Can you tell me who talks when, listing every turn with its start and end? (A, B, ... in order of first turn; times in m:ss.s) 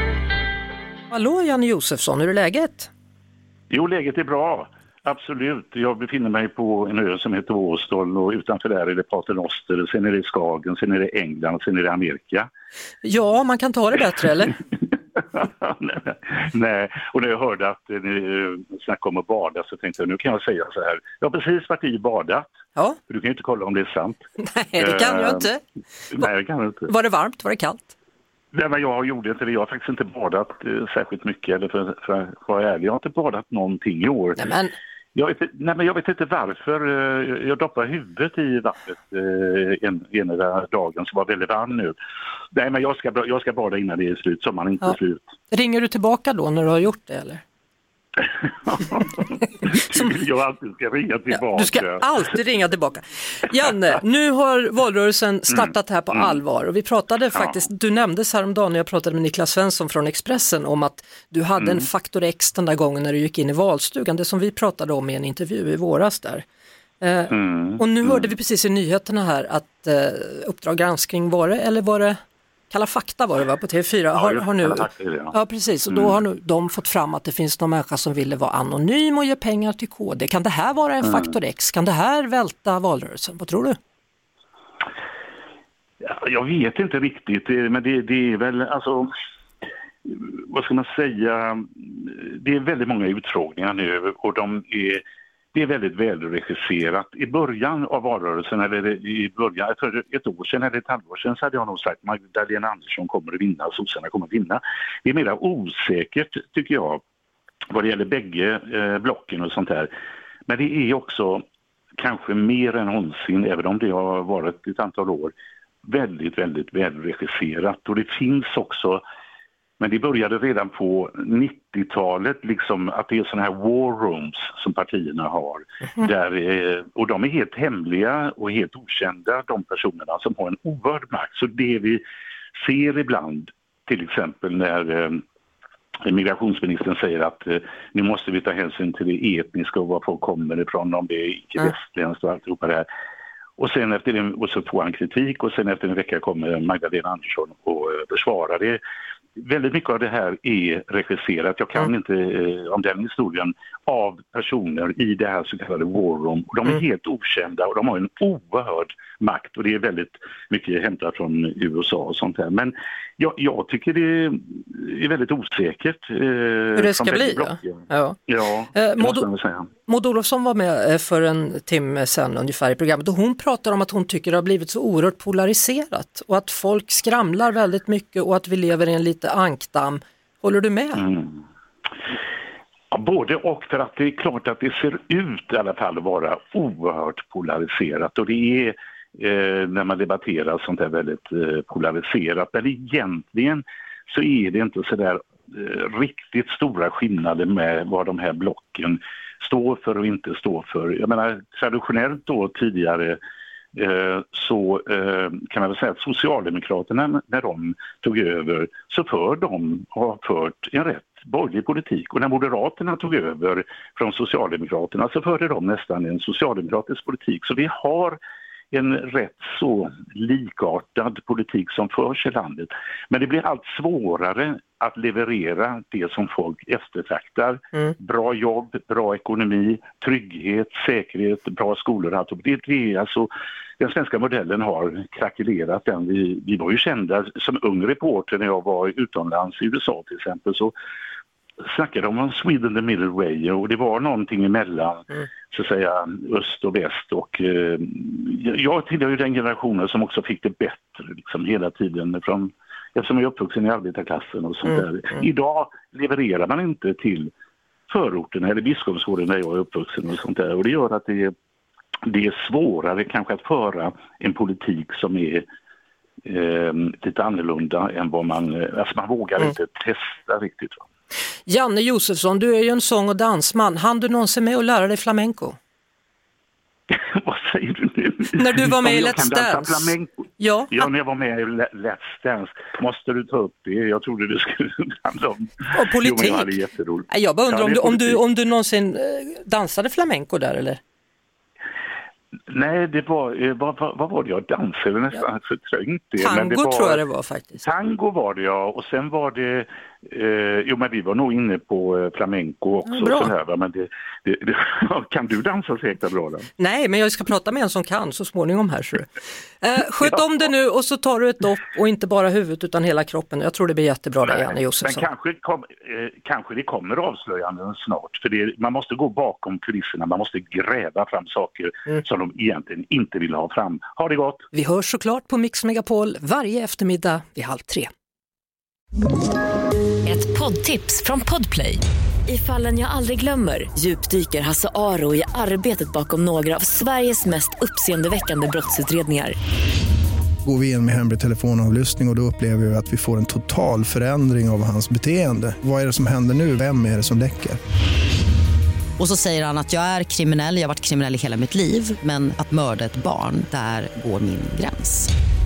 0:01.1-0:02.9 A
0:03.7-0:12.5 B
0:13.0-0:14.6 A
0:15.2-0:22.5 B
0:23.1-0:24.2 B
0:24.4-0:25.6 A
0:24.8-0:25.5 B
0:26.1-0:26.9 B
0:26.9-0:28.0 A
0:28.5-0:34.4 B
0:34.4-0:34.7 A
0:35.2-0:42.0 B
0:42.5-0:45.3 B
0:45.5-0:47.4 A
0:48.2-0:52.1 B
0:51.5-1:06.5 A
0:55.5-0:56.4 B
1:01.6-1:01.9 B
1:07.0-1:12.2 A
1:07.3-1:08.3 B
1:12.7-1:23.8 A
1:14.2-1:15.4 B
1:15.9-1:16.2 B
1:21.0-1:21.3 B
1:26.0-1:29.1 B
1:30.0-1:35.0 B
1:35.5-1:47.0 B
1:47.7-1:49.9 B
1:50.5-1:51.4 B
1:52.0-1:55.3 B
1:55.8-1:59.0 B
1:59.8-2:12.0 B
2:12.6-2:15.2 B
2:16.0-2:22.9 B
2:23.6-2:28.8 B
2:29.4-2:49.7 B
2:46.8-2:48.2 A
2:48.7-2:49.2 A
2:49.9-3:01.1 A
3:01.0-3:01.4 B
3:02.9-3:23.2 B
3:23.8-3:38.2 B
3:38.7-4:00.7 B
4:01.6-4:17.3 B
4:17.9-4:21.3 B
4:22.0-4:25.4 B
4:26.2-4:30.8 B
4:31.5-4:35.6 A
4:36.9-4:48.2 B
4:38.4-4:40.9 A
4:45.7-4:46.5 A
4:47.1-4:50.8 A
4:52.5-4:57.0 B
4:56.2-4:57.6 A
4:57.6-5:06.5 B
5:02.9-5:03.3 A
5:06.6-5:15.1 A
5:14.2-5:24.5 B
5:24.5-5:27.9 A
5:30.0-5:39.4 C
5:40.4-5:47.6 D
5:49.0-5:55.1 E